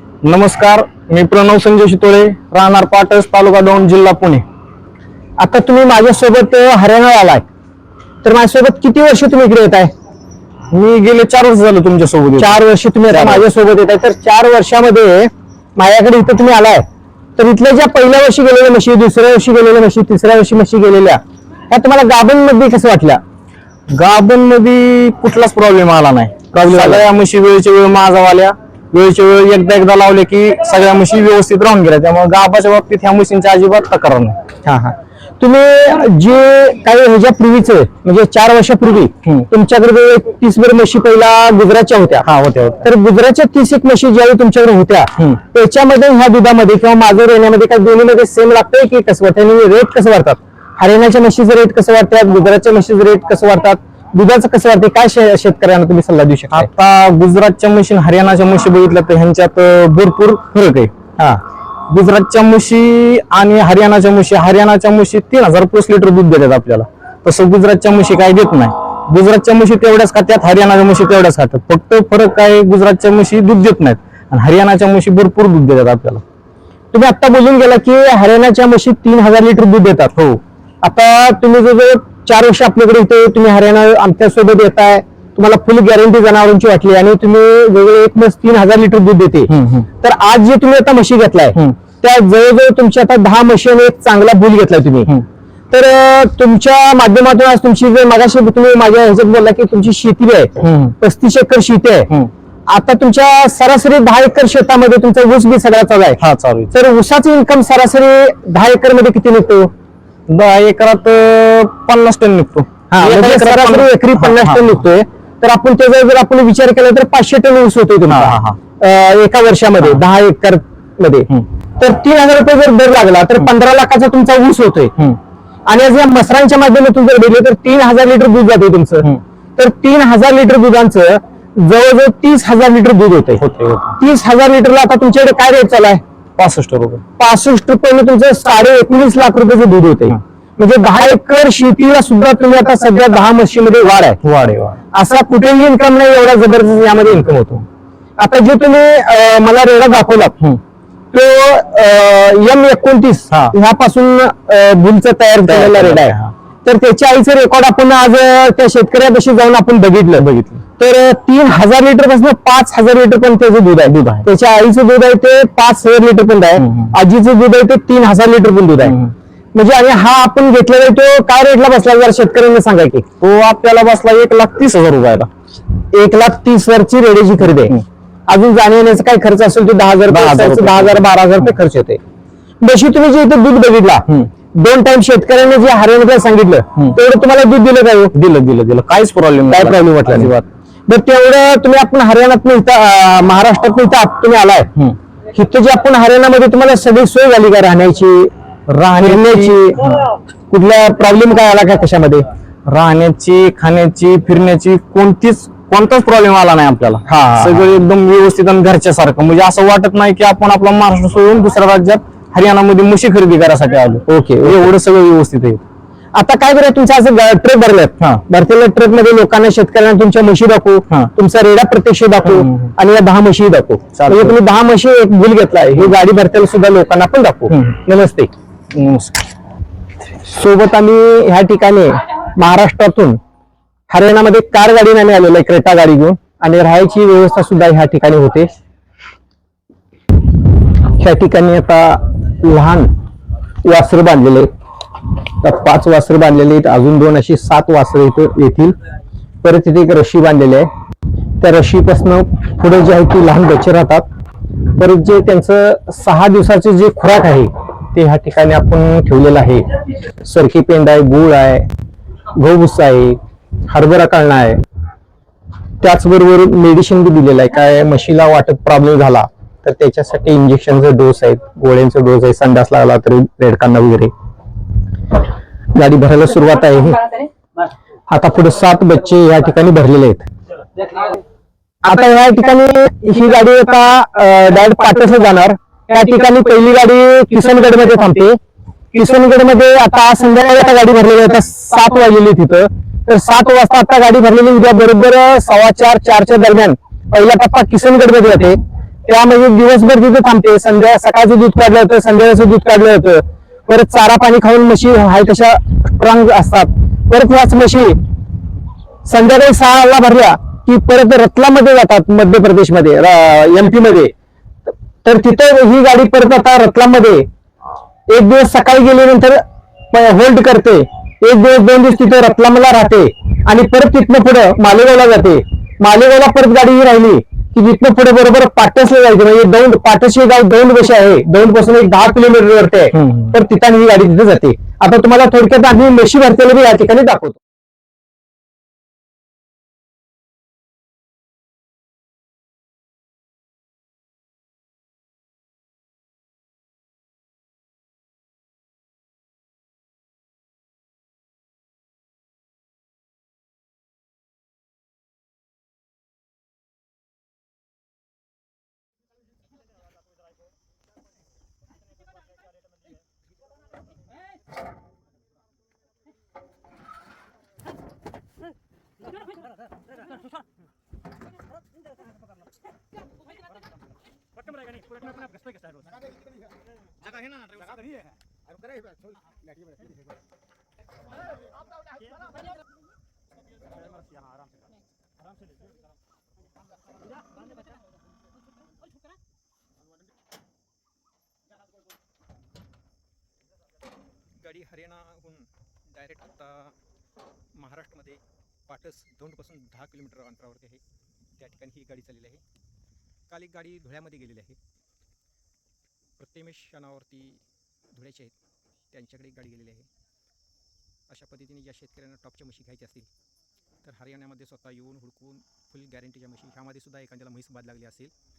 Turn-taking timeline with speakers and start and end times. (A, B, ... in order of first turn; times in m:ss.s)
0:00.2-0:04.4 A
0:05.4-0:07.4 B
0:08.2-0:09.9 B
0:10.7-0:12.6 A
0:12.4-0:16.8 B
0:13.1-0:13.4 A
0:17.4-0:23.2 B
0:23.9-0:34.4 A
0:26.5-0:27.0 B
0:34.6-0:42.3 B
0:42.2-0:42.9 A
0:42.8-0:56.7 B
0:56.5-1:00.9 A
1:01.9-1:16.2 A
1:16.9-1:35.1 B
1:29.5-1:29.9 A
1:35.7-1:42.1 B
1:40.6-1:41.0 A
1:42.7-1:46.2 B
1:46.2-1:46.7 A
1:46.7-1:49.7 B
1:50.3-1:54.8 A
1:52.9-2:04.9 B
1:58.1-1:58.6 A
2:05.7-2:13.4 B
2:13.4-2:14.0 A
2:14.0-2:16.0 B
2:16.4-2:17.0 A
2:17.2-2:24.2 B
2:24.2-2:24.8 A
2:24.9-2:27.6 B
2:28.2-2:30.4 B
2:31.1-2:40.3 B
2:35.5-2:36.3 A
2:40.2-2:40.6 A
2:40.8-2:49.0 B
2:43.9-2:44.2 A
2:46.6-2:46.9 A
2:48.8-2:49.1 A
2:49.5-2:53.0 B
2:53.2-2:55.3 A
2:55.9-3:02.0 B
2:57.6-2:57.8 A
3:00.1-3:01.0 A
3:02.6-3:08.1 B
3:08.1-3:10.4 A
3:09.5-3:10.3 B
3:10.9-3:14.7 B
3:15.3-3:18.3 B
3:18.7-3:19.9 A
3:18.9-3:22.2 B
3:22.7-3:35.6 A
3:27.1-3:27.6 B
3:34.1-3:34.7 B
3:36.1-3:48.3 B
3:42.3-3:42.7 A
3:43.9-3:44.4 A
3:48.7-3:49.3 A
3:50.2-3:53.2 B
3:53.9-3:58.5 B
4:00.9-4:02.9 B
4:03.6-4:04.5 B
4:05.3-4:08.8 B
4:09.4-4:10.7 B
4:11.4-4:14.1 B
4:14.7-4:21.7 B
4:22.3-4:24.6 B
4:25.8-4:34.1 B
4:35.7-4:37.2 B
4:38.1-4:40.2 B
4:41.8-4:48.4 B
4:48.9-5:08.0 B
5:09.0-5:14.1 B
5:14.6-5:17.3 B
5:18.1-5:37.4 B
5:32.9-5:33.3 A
6:34.4-6:36.8 C
6:37.5-6:40.8 C
6:41.4-6:42.4 C
6:43.3-6:44.6 C
6:46.2-6:48.3 C
6:48.9-6:49.9 C
6:51.1-6:53.1 C
6:53.8-6:58.1 C